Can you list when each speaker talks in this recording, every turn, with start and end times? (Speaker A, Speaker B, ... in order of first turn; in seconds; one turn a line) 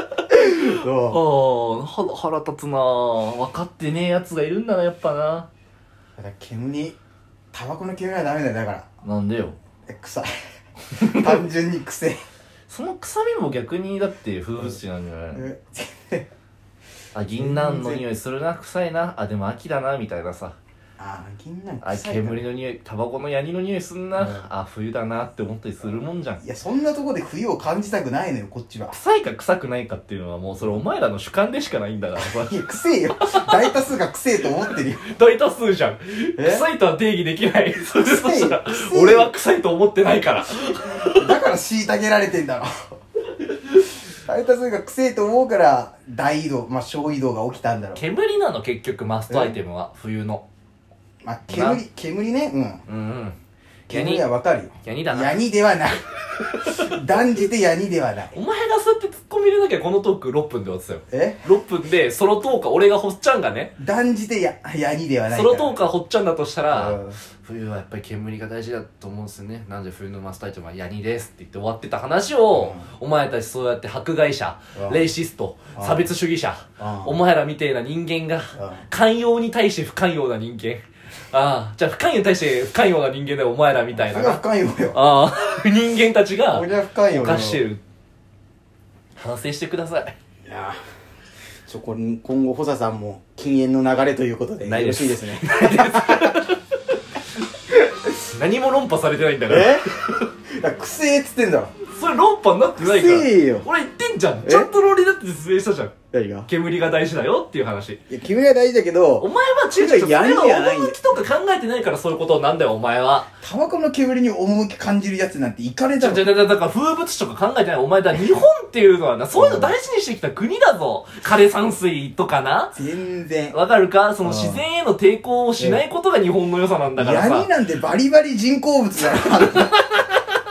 Speaker A: 0.3-1.2
Speaker B: 0.3-5.5
Speaker A: 6.2-7.0
Speaker A: 7.5-8.9
Speaker B: 9.0-9.6
Speaker A: 9.9-10.3
Speaker A: 11.0-12.2
Speaker B: 11.0-11.4
Speaker B: 12.7-15.4
Speaker A: 15.3-16.3
Speaker B: 17.1-20.6
Speaker A: 17.3-18.0
Speaker A: 21.0-22.4
Speaker B: 21.8-26.4
Speaker A: 24.1-24.4
Speaker A: 26.4-29.0
Speaker B: 28.9-32.6
Speaker A: 32.2-35.0
Speaker B: 33.2-33.6
Speaker B: 35.0-41.3
Speaker A: 36.4-36.6
Speaker A: 38.0-39.3
Speaker A: 41.0-42.7
Speaker A: 43.7-48.0
Speaker B: 48.0-50.4
Speaker A: 49.3-49.6
Speaker A: 51.2-52.8
Speaker B: 51.5-51.8
Speaker B: 52.9-53.4
Speaker B: 53.9-54.3
Speaker A: 53.9-58.3
Speaker B: 54.8-55.4
Speaker B: 56.4-57.0
Speaker B: 58.3-63.7
Speaker A: 61.1-61.4
Speaker A: 63.8-65.8
Speaker B: 65.3-87.8
Speaker A: 66.7-67.2
Speaker A: 72.5-72.8
Speaker A: 74.7-75.0
Speaker A: 75.8-76.1
Speaker A: 76.8-77.2
Speaker A: 78.5-78.8
Speaker A: 83.9-85.0
Speaker A: 86.5-87.6
Speaker B: 89.2-90.1
Speaker A: 90.5-90.8
Speaker A: 91.7-96.4
Speaker B: 94.6-97.2
Speaker B: 98.0-100.3
Speaker A: 99.5-100.0
Speaker A: 100.6-101.7
Speaker B: 101.8-105.9
Speaker A: 102.8-103.7
Speaker A: 104.4-104.7
Speaker A: 106.1-106.5
Speaker B: 106.5-108.0
Speaker A: 108.1-111.0
Speaker B: 109.2-113.3
Speaker A: 113.4-116.3
Speaker B: 116.0-122.7
Speaker A: 119.3-119.7
Speaker A: 122.7-123.6
Speaker B: 123.5-127.5
Speaker A: 124.2-124.6
Speaker A: 127.0-129.9
Speaker B: 129.3-130.0